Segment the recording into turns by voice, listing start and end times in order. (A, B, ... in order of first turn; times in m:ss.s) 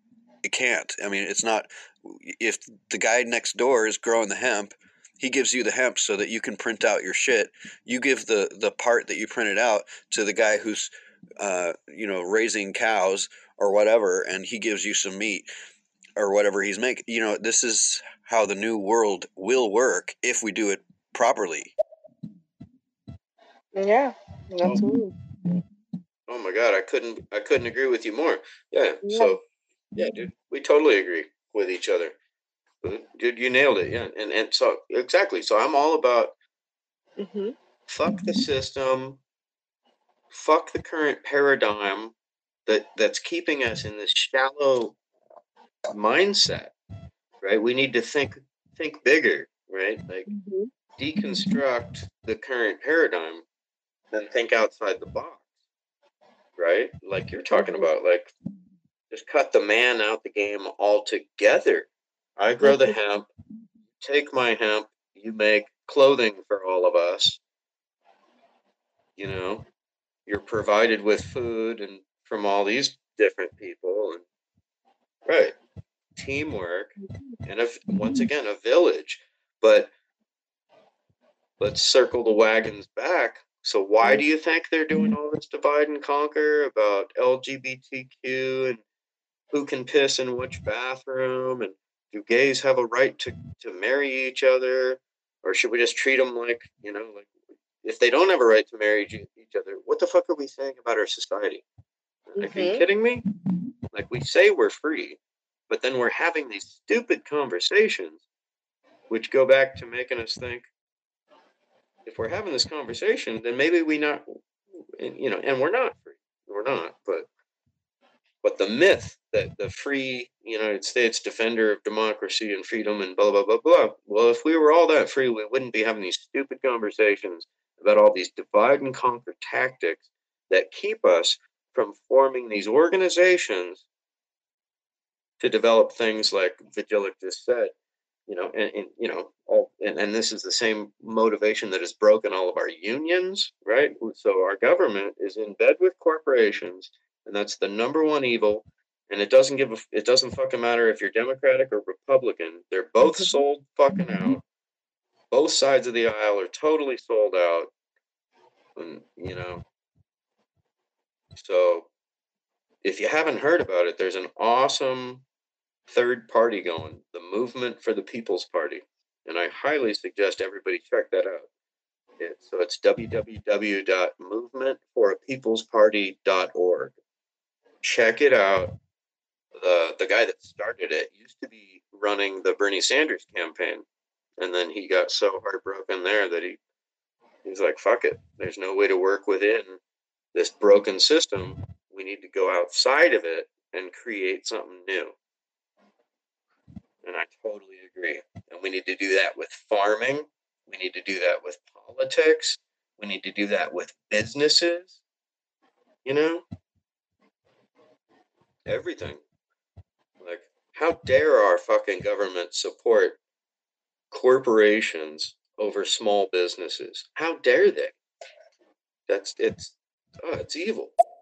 0:00.4-0:15.5 A
0:16.2-0:21.7 A
0:23.8-0:25.1 B
0:26.3-0:29.4 C
0:29.0-0:29.4 B
0:30.0-0:32.1 C
0:32.8-0:36.3 C
0:37.2-0:37.5 B
0:37.9-0:39.2 C
0:40.3-0:42.1 C
0:42.6-0:45.0 C
0:45.9-0:46.7 C
0:47.4-0:50.3 C
0:50.3-0:50.7 B
0:51.0-0:53.4 C
0:54.1-0:55.4 C
0:56.6-0:58.3 C
0:57.5-0:57.9 B
0:59.1-1:03.3 C
1:02.6-1:02.9 B
1:04.0-1:07.4 C
1:09.2-1:09.6 C
1:10.2-1:14.2 C
1:15.2-1:15.6 C
1:16.2-1:19.9 C
1:21.6-1:28.8 C
1:29.5-1:37.3 C
1:37.8-1:41.6 C
1:42.3-1:43.2 C
1:42.4-1:42.8 B
1:43.9-1:48.2 C
1:49.1-1:50.7 C
1:52.0-1:54.4 C
1:55.0-1:57.3 C
1:58.4-2:13.8 C
2:15.4-2:17.7 C
2:18.3-2:34.4 C
2:35.3-2:37.7 C
2:38.8-2:39.6 C
2:41.4-2:41.9 C
2:42.8-2:45.2 C
2:45.9-2:51.5 C
2:52.2-2:57.0 C
2:57.8-2:58.7 C
2:59.6-3:03.8 C
3:04.4-3:06.6 C
3:07.4-3:09.8 C
3:10.3-3:15.1 C
3:17.0-3:25.0 C
3:26.0-3:26.4 C
3:28.7-3:29.2 C
3:30.2-3:33.2 C
3:34.1-3:38.0 C
3:39.1-3:40.9 C